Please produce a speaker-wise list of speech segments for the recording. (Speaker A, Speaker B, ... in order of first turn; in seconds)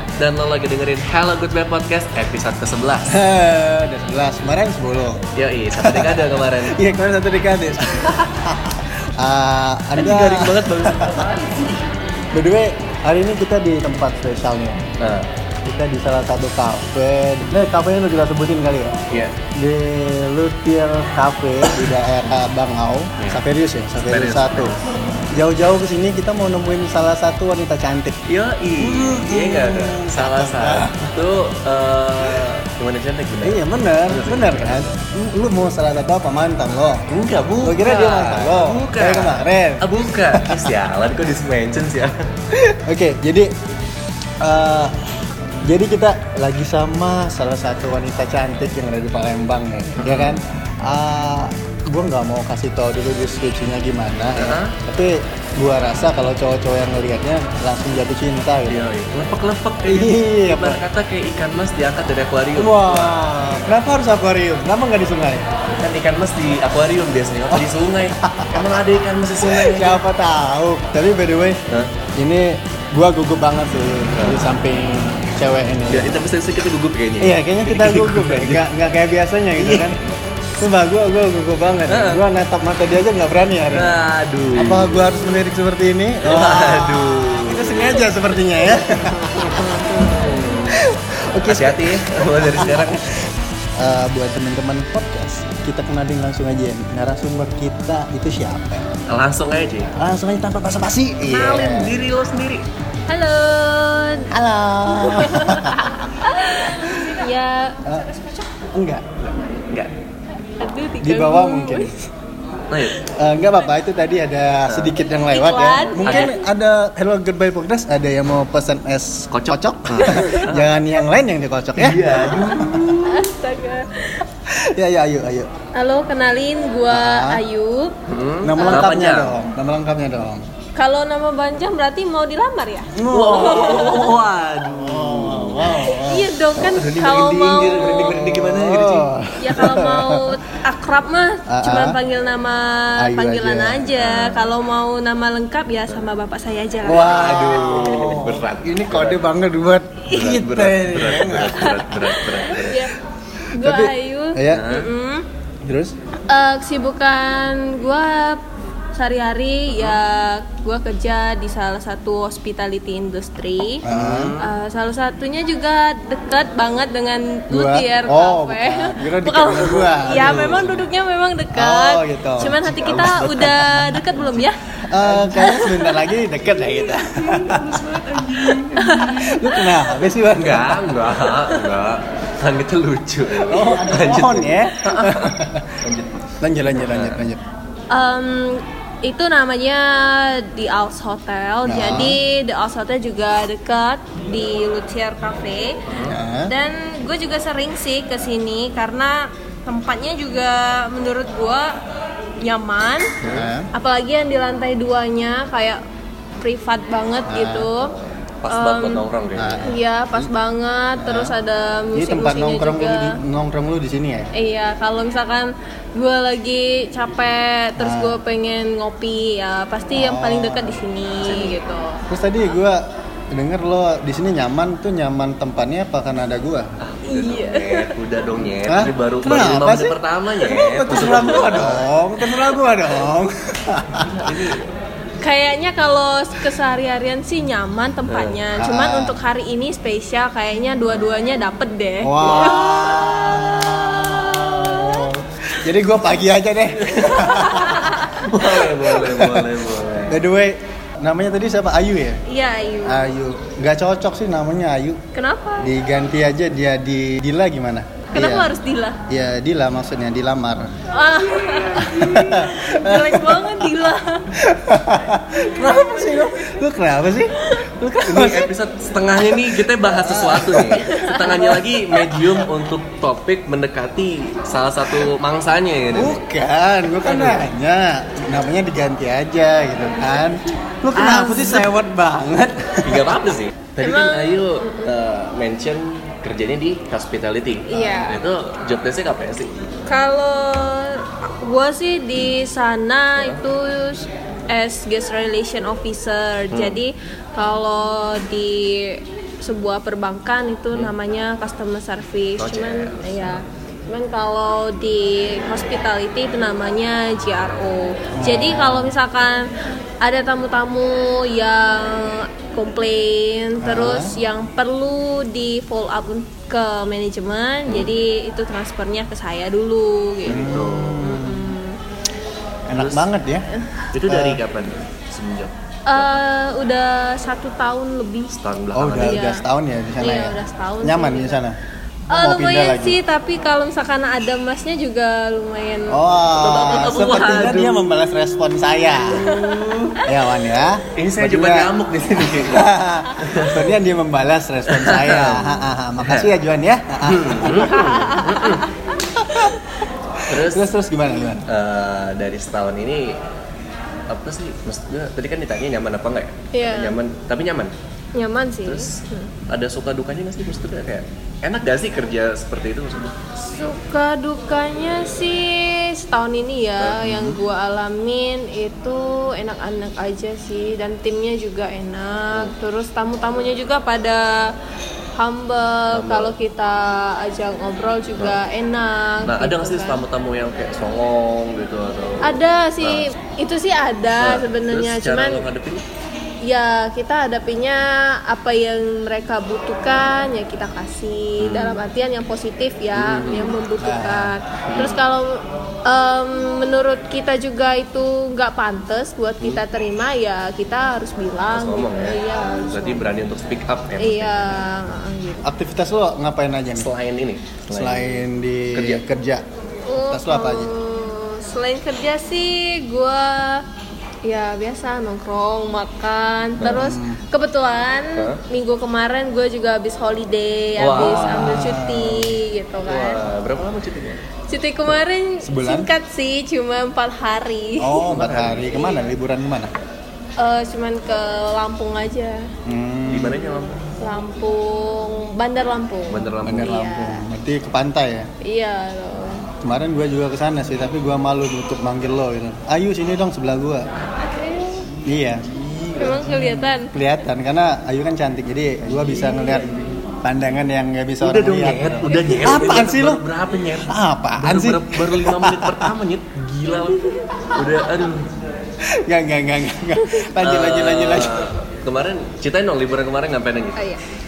Speaker A: 0.2-3.2, 5.4-6.8, 10.0-11.8, 15.0-15.3, 19.1-19.4, 23.2-23.4, 24.0-24.8, 28.3-34.9, 37.1-42.1, 50.0-50.4, 54.4-54.8, 58.7-63.3, 65.8-70.0, 74.2-74.4, 75.9-78.7, 79.6-80.0, 81.9-82.2, 83.7-85.3, 86.2-90.8, 91.5-93.0, 99.1-99.9, 101.3-102.7, 109.2-109.9, 112.7-113.0, 114.7-115.0, 116.0-116.3, 119.3-120.7, 121.8-123.3, 128.1-129.3, 133.1-135.8, 136.6-139.1, 144.0-144.5, 146.9-149.2, 150.1-152.9, 154.5-154.9, 163.9-164.5, 170.1-170.7, 172.7-173.6, 174.2-174.5, 175.1-175.3, 176.9-179.5, 180.3-187.2, 195.9-196.2, 203.2-203.5, 207.9-209.7, 221.2-221.6, 226.8-231.9, 233.9-234.7, 238.1-238.4, 246.8-250.2, 268.0-276.2, 277.0-277.5, 280.9-281.7, 282.8-289.5, 296.5-296.8, 302.4-303.3, 320.3-321.0, 322.8-323.1, 323.9-326.2, 328.4-329.2, 336.4-337.8, 339.1-340.0, 340.9-343.7, 344.7-346.3, 347.0-348.7, 350.3-350.7, 351.5-353.2, 354.1-357.7, 358.6-363.1, 375.9-376.3, 379.2-383.1, 384.2-385.8, 391.4-391.8, 392.9-393.6, 394.7-395.0, 401.5-404.6, 406.7-408.2, 408.7-409.0, 416.6-416.9, 420.8-421.6, 422.9-424.2, 428.1-428.9, 433.1-433.9, 436.1-436.7, 451.2-457.0, 457.5-458.3, 460.4-463.8
Speaker B: 3.1-11.3, 12.3-14.8, 15.6-19.0, 19.5-24.8, 25.3-28.2, 28.8-31.1, 33.4-40.7, 42.5-43.5, 44.4-45.0, 45.6-58.8, 59.9-60.8, 62.6-65.5, 68.2-68.8, 69.4-71.6, 72.2-76.2, 77.2-80.0, 80.6-84.0, 84.5-93.2, 93.8-98.9, 100.0-101.9, 104.3-107.2, 108.7-109.2, 111.0-112.1, 113.1-123.0, 124.5-125.5, 126.9-127.4, 128.4-130.5, 132.9-134.0, 134.6-136.3, 137.8-140.4, 141.5-142.0, 143.0-143.9, 146.8-151.9, 153.5-154.7, 155.6-155.9, 163.8-164.3, 167.5-170.8, 171.5-173.9, 174.9-177.8, 179.1-181.1, 183.3-185.8, 186.4-187.4, 191.7-192.2, 196.1-196.5, 203.2-203.7, 207.3-207.7, 209.4-210.3, 211.0-211.3, 211.9-214.3, 217.8-218.2, 219.9-220.8, 222.1-226.7, 228.7-234.4, 238.6-239.2, 242.0-249.5, 250.1-252.2, 252.8-255.0, 255.6-258.5, 259.1-260.7, 261.7-263.8, 264.4-268.5, 269.2-272.5, 275.9-283.1, 308.1-308.9, 313.6-314.1, 320.3-321.6, 322.7-323.5, 324.1-324.4, 328.7-331.6, 332.1-333.0, 335.9-339.3, 340.0-348.1, 349.2-349.5, 350.2-351.4, 367.0-367.4, 393.8-394.3, 405.4-406.9, 407.7-409.4, 410.0-410.7, 416.6-417.2, 420.9-422.4, 425.4-425.9, 427.8-429.7, 432.7-433.5, 436.4-438.3, 439.6-443.9, 445.1-453.2, 453.9-455.9, 458.9-461.4
Speaker C: 103.1-104.3, 104.9-108.5, 110.5-111.9, 115.2-116.5, 120.0-120.5, 123.0-124.3, 125.8-128.0, 128.6-128.9, 130.8-134.1, 135.7-138.0, 139.4-148.2, 151.6-152.9, 153.5-155.3, 156.3-158.4, 158.9-163.8, 164.4-174.6, 175.3-176.1, 178.4-179.7, 187.9-195.8, 196.5-201.8, 202.4-203.2, 203.7-205.8, 206.4-207.9, 208.5-209.0, 209.6-213.2, 214.3-222.1, 227.1-227.9, 231.0-231.2, 235.2-245.1, 246.9-248.3, 252.3-253.1, 255.1-255.7, 258.1-259.0, 260.9-264.3, 265.5-266.6, 267.4-267.7, 270.8-271.5, 283.8-284.9, 287.7-288.2, 289.9-309.5, 310.0-321.8, 325.9-328.4, 329.0-329.4, 330.0-331.4, 332.1-336.0, 336.5-337.5, 339.1-339.8, 347.5-349.5, 356.5-357.0, 358.1-359.3, 363.4-374.5, 375.1-380.0, 382.2-385.4, 386.4-403.0, 404.0-405.5, 409.9-413.6, 414.2-423.2, 424.5-428.1, 430.4-432.5, 434.0-437.2, 438.4-439.5, 444.2-444.9, 446.0-446.9, 452.1-452.6, 456.7-457.5, 463.8-464.0